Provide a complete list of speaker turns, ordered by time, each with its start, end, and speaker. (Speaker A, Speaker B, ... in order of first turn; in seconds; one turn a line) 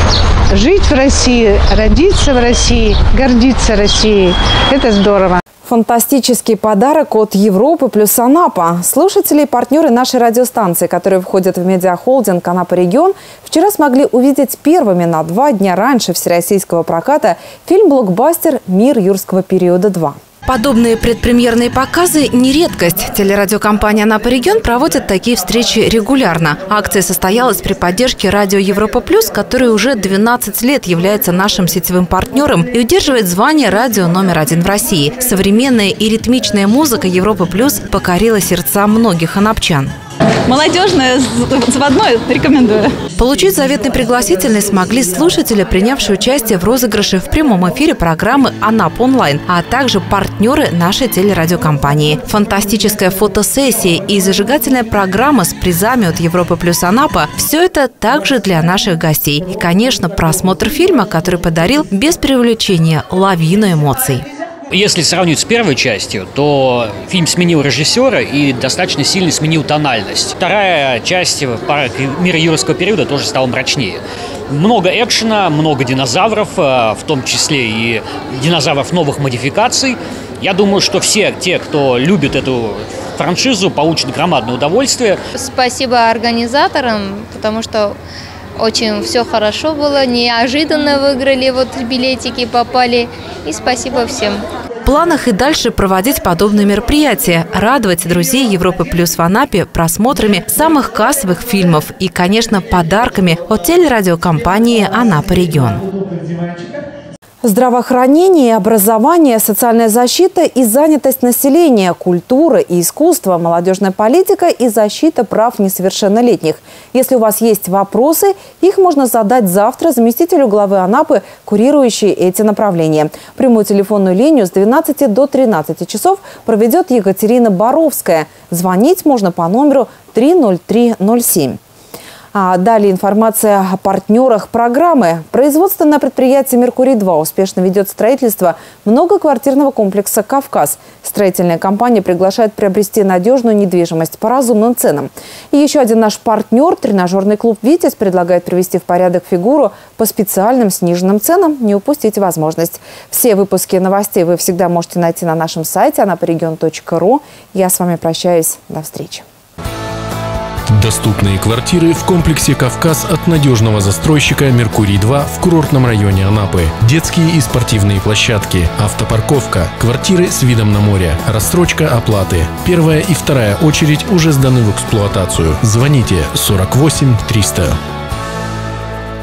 Speaker A: 0.5-5.4
Speaker B: 5.7-39.9
Speaker C: 40.5-42.9
Speaker B: 43.2-64.2
Speaker D: 64.7-85.2
Speaker E: 85.3-88.0
Speaker E: 88.6-94.4
Speaker B: 94.8-105.8
Speaker B: 107.4-131.6
Speaker B: 132.3-159.3
Speaker F: 160.7-177.8